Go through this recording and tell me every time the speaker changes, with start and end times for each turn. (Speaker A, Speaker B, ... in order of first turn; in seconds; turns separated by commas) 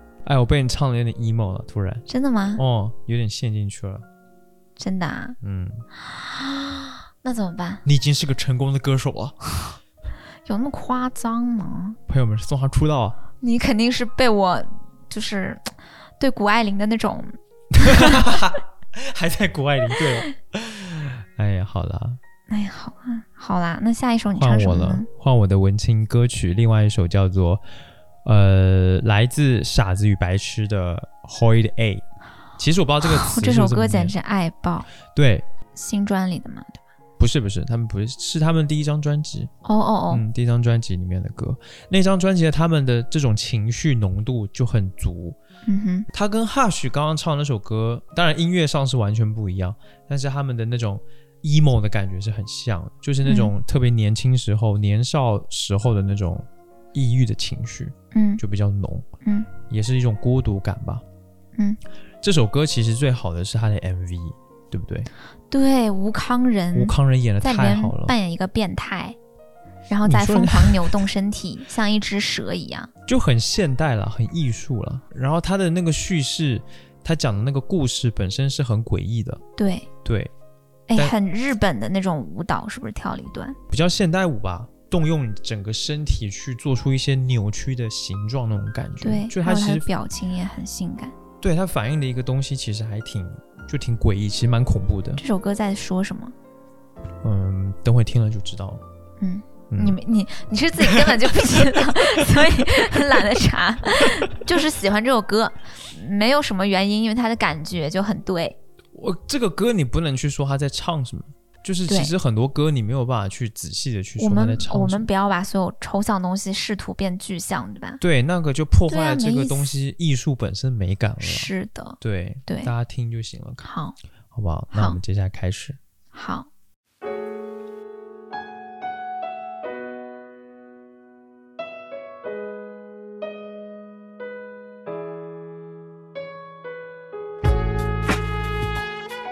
Speaker A: 0.2-4.0, Speaker B: 2.1-2.6, Speaker B: 4.8-5.4, Speaker A: 5.4-5.8, Speaker B: 6.0-7.8, Speaker A: 7.8-9.3, Speaker B: 10.5-12.0, Speaker A: 12.1-13.2, Speaker B: 13.4-15.6, Speaker B: 16.2-18.3, Speaker A: 17.8-22.2, Speaker B: 22.5-25.1, Speaker A: 24.3-27.6, Speaker A: 28.2-32.0, Speaker A: 32.6-34.1, Speaker B: 33.0-34.9, Speaker A: 35.1-35.5, Speaker B: 35.8-36.8, Speaker A: 37.2-39.5, Speaker B: 39.6-40.2, Speaker A: 40.1-45.4, Speaker B: 45.7-46.0, Speaker A: 46.1-59.1, Speaker B: 53.2-53.5, Speaker B: 58.1-58.4, Speaker A: 59.7-61.0, Speaker A: 62.2-65.1, Speaker B: 65.5-69.2, Speaker A: 66.7-68.1, Speaker B: 69.9-72.9, Speaker A: 70.0-71.0, Speaker A: 73.1-79.4, Speaker B: 79.6-79.9, Speaker A: 80.0-80.3, Speaker B: 80.9-83.6, Speaker A: 83.7-89.8, Speaker B: 89.0-91.1, Speaker A: 91.4-95.2, Speaker B: 95.2-96.3, Speaker A: 97.2-98.8, Speaker B: 99.2-108.6, Speaker A: 99.7-100.0, Speaker A: 100.9-101.9, Speaker A: 108.9-115.1, Speaker B: 111.9-112.1, Speaker B: 114.2-118.0, Speaker A: 118.0-123.6, Speaker B: 118.9-119.7, Speaker B: 121.2-122.7, Speaker B: 123.6-124.0, Speaker A: 124.3-125.8, Speaker B: 124.7-125.0, Speaker B: 126.1-126.5